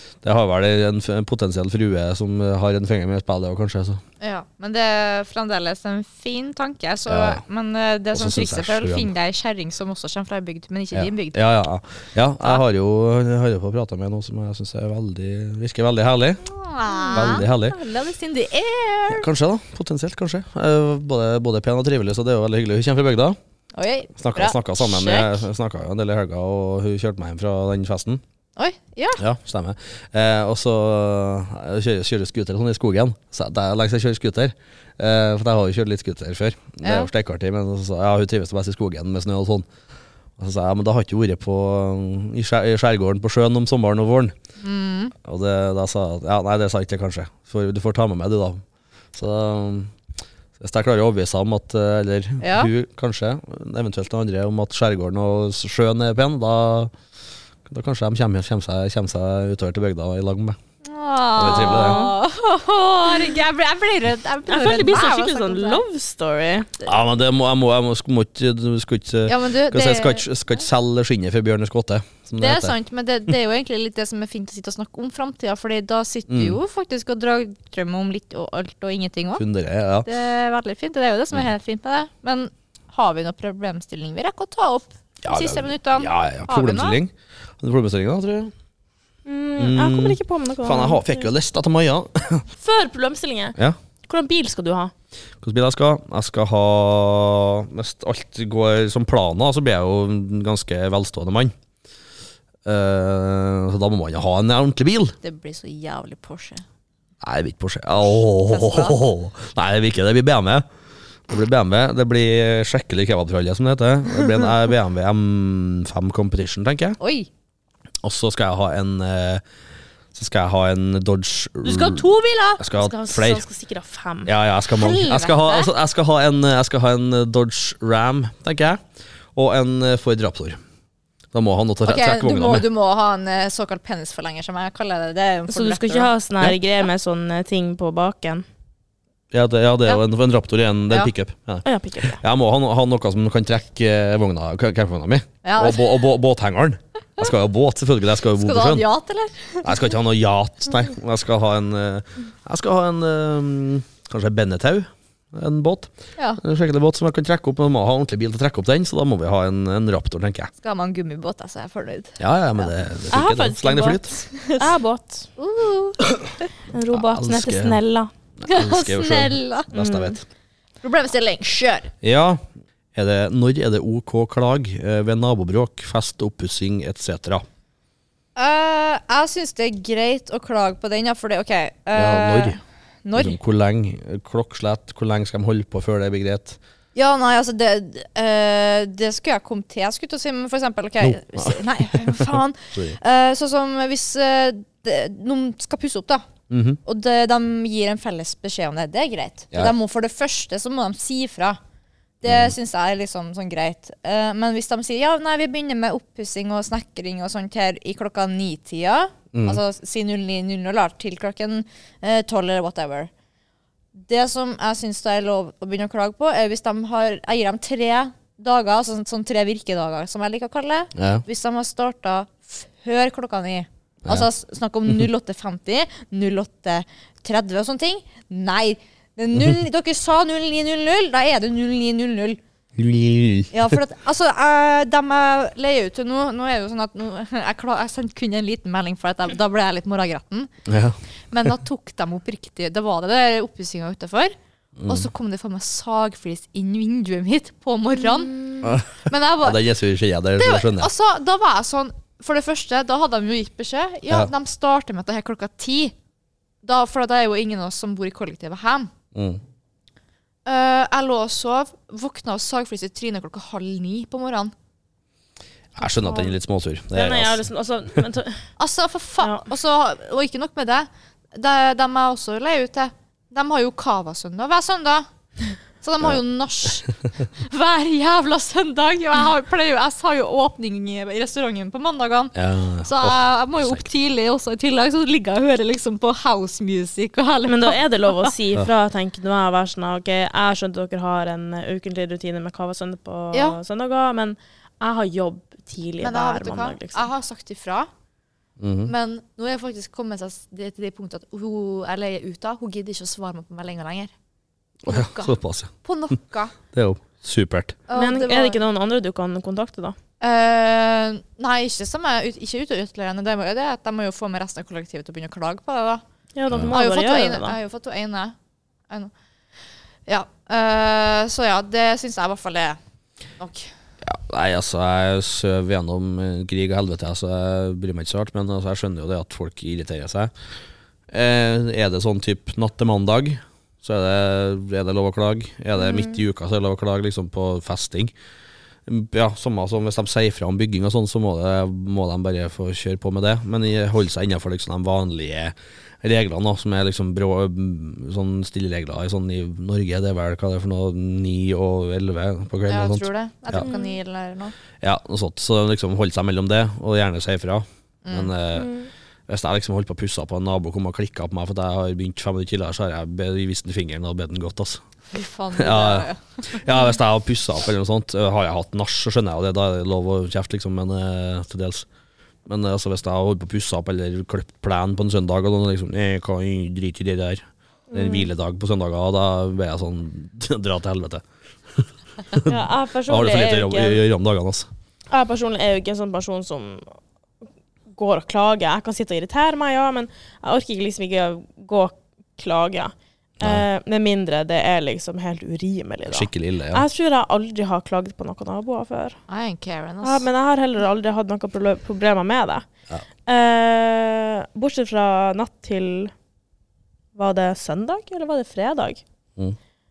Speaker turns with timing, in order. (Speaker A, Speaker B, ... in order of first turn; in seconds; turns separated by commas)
Speaker A: 0.2-4.0, Speaker B: 4.2-11.4, Speaker A: 7.1-7.4, Speaker A: 8.1-9.1, Speaker A: 10.9-16.4, Speaker B: 16.4-19.3, Speaker A: 17.1-17.8, Speaker A: 19.1-23.4, Speaker B: 23.7-25.4, Speaker A: 24.2-28.2, Speaker B: 28.6-29.2, Speaker A: 29.2-39.7, Speaker B: 36.8-37.1, Speaker A: 40.4-44.4, Speaker B: 44.6-45.1, Speaker A: 45.2-48.6, Speaker A: 49.1-49.9, Speaker A: 50.6-56.9, Speaker B: 52.4-52.7, Speaker A: 57.7-60.6, Speaker B: 60.9-65.8, Speaker A: 61.4-62.0, Speaker C: 61.4-62.1, Speaker C: 64.5-66.7, Speaker A: 66.8-72.7, Speaker B: 69.3-70.3, Speaker B: 72.4-79.4, Speaker A: 76.3-76.6, Speaker A: 79.4-80.1, Speaker B: 80.0-87.0, Speaker A: 85.2-88.5, Speaker C: 89.3-91.2, Speaker A: 89.6-92.5, Speaker C: 92.6-94.9, Speaker A: 95.4-101.5, Speaker A: 102.7-105.2, Speaker B: 105.2-106.6, Speaker A: 107.2-110.7, Speaker B: 108.0-109.0, Speaker A: 111.3-117.0, Speaker B: 117.0-117.3, Speaker A: 118.0-119.4, Speaker A: 120.1-122.0, Speaker B: 121.6-122.6, Speaker A: 122.6-123.4, Speaker C: 122.7-124.3, Speaker A: 124.3-128.8, Speaker B: 124.7-125.7, Speaker A: 129.3-130.6, Speaker A: 131.3-132.7, Speaker B: 131.8-136.1, Speaker C: 135.5-138.4, Speaker A: 139.3-148.8, Speaker C: 141.7-142.2, Speaker B: 145.4-145.9, Speaker B: 148.3-149.8, Speaker A: 149.6-160.5, Speaker B: 160.6-162.7, Speaker A: 162.2-164.2, Speaker C: 163.1-165.3, Speaker B: 164.3-164.7, Speaker B: 165.4-166.1, Speaker C: 166.7-168.1, Speaker A: 166.9-167.8, Speaker A: 168.4-170.2, Speaker B: 168.5-170.0, Speaker C: 169.7-170.1, Speaker B: 170.8-171.9, Speaker A: 172.0-172.4, Speaker A: 172.9-177.5, Speaker B: 178.4-183.4, Speaker A: 181.9-182.6, Speaker A: 183.2-186.6, Speaker B: 186.9-196.2, Speaker A: 191.0-193.0, Speaker A: 196.5-196.8, Speaker B: 196.8-201.6, Speaker B: 202.2-213.1, Speaker A: 202.2-202.5, Speaker A: 209.3-209.6, Speaker B: 214.1-232.4, Speaker A: 221.0-221.2, Speaker A: 232.8-233.8, Speaker B: 233.5-240.5, Speaker A: 240.7-241.0, Speaker B: 241.3-244.3, Speaker A: 244.8-245.1, Speaker B: 244.9-249.6, Speaker A: 248.6-250.9, Speaker B: 250.4-255.9, Speaker B: 256.6-258.9, Speaker A: 259.1-259.4, Speaker B: 260.5-264.5, Speaker A: 265.8-267.4, Speaker C: 266.0-266.3, Speaker C: 266.9-268.5, Speaker B: 268.6-275.1, Speaker C: 269.2-269.5, Speaker B: 275.8-288.3, Speaker A: 282.4-283.8, Speaker C: 287.5-297.1, Speaker B: 293.3-293.6, Speaker B: 296.0-297.9, Speaker A: 298.6-298.9, Speaker B: 298.9-304.1, Speaker A: 304.9-305.7, Speaker B: 304.9-306.6, Speaker A: 306.7-307.8, Speaker B: 307.9-308.6, Speaker C: 307.9-310.0, Speaker B: 310.2-316.0, Speaker C: 316.4-317.6, Speaker B: 316.6-318.4, Speaker B: 320.1-322.8, Speaker B: 323.4-323.7, Speaker A: 324.0-330.3, Speaker A: 331.1-338.1, Speaker C: 335.9-336.1, Speaker A: 338.9-353.7, Speaker B: 352.7-354.5, Speaker C: 353.6-354.0, Speaker A: 354.8-358.7, Speaker B: 358.0-358.3, Speaker C: 358.6-358.9, Speaker A: 359.3-364.8, Speaker B: 365.1-366.6, Speaker A: 365.6-371.9, Speaker A: 372.5-384.7, Speaker C: 377.9-378.3, Speaker C: 382.5-384.0, Speaker C: 385.1-386.9, Speaker C: 387.9-399.2, Speaker A: 396.1-396.9, Speaker B: 399.3-400.3, Speaker C: 400.0-402.6, Speaker C: 403.3-406.1, Speaker C: 407.1-409.0